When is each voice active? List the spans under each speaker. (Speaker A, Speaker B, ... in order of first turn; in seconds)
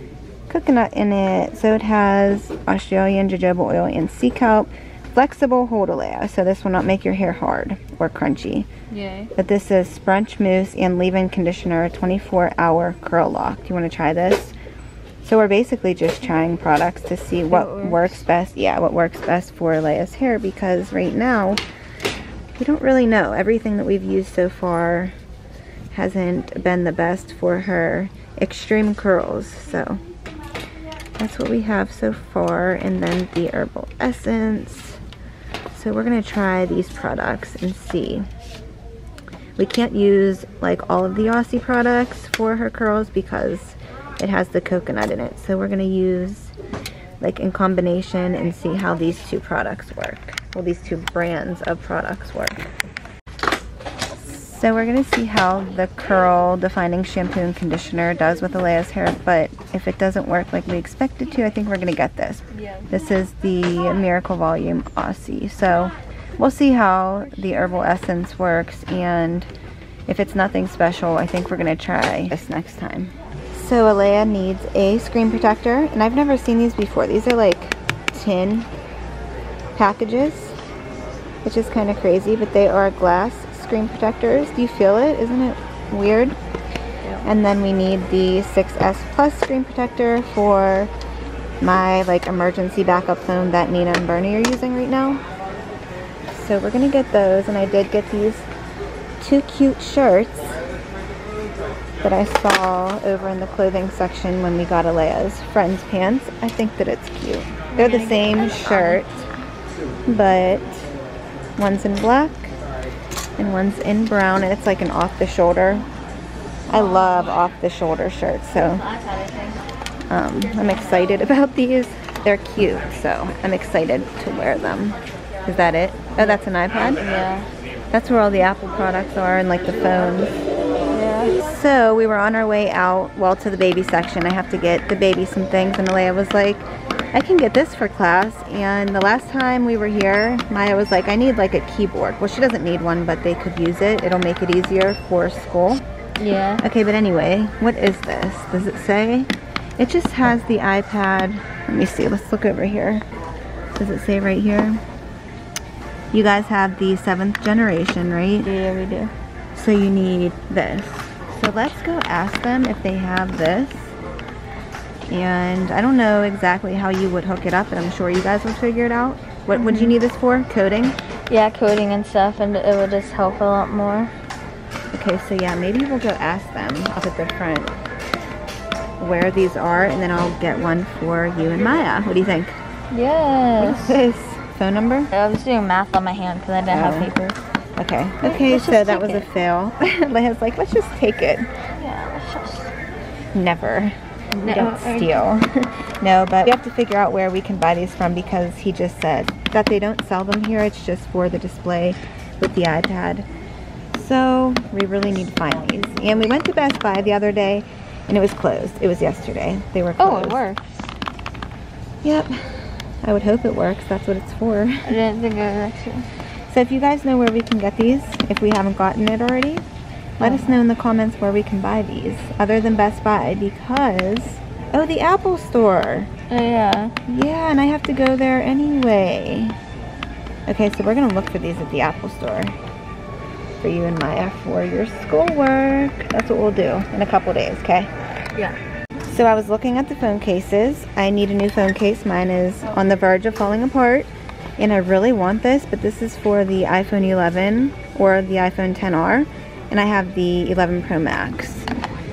Speaker A: 0.5-8.7, 9.4-14.5, 15.2-21.6, 22.6-25.1, 25.9-30.0, 31.2-35.0, 35.7-38.3, 39.6-46.5, 47.2-52.6, 54.2-69.5, 70.1-78.7, 79.8-80.6, 81.5-86.4, 87.2-90.9, 91.6-95.2, 96.3-98.5, 99.2-100.6, 102.0-109.2, 110.1-110.9, 111.6-112.5, 113.4-115.9, 116.7-118.8, 120.1-127.0, 127.9-130.4, 131.4-145.8, 146.6-153.0, 153.8-154.8, 156.1-158.5, 159.5-163.9, 165.1-171.0, 174.9-177.7, 179.0-182.6, 183.6-185.1, 186.7-187.1, 187.8-191.5, 193.3-203.3, 203.9-210.4, 212.0-212.3, 213.0-214.9, 216.5-219.6, 220.2-226.1, 227.1-229.6, 230.5-232.6, 233.6-237.9, 239.1-251.7
Speaker B: 8.9-9.3, 17.5-18.2, 62.5-62.9, 87.0-87.3, 107.7-109.0, 116.7-117.4, 118.8-119.5, 126.2-127.5, 130.9-131.4, 146.2-146.6, 158.4-159.1, 169.6-170.0, 171.3-174.1, 182.9-184.0, 185.1-187.4, 188.2-189.3, 191.7-192.7, 194.3-195.2, 210.0-210.8, 214.8-216.1, 220.2-220.5, 226.3-226.9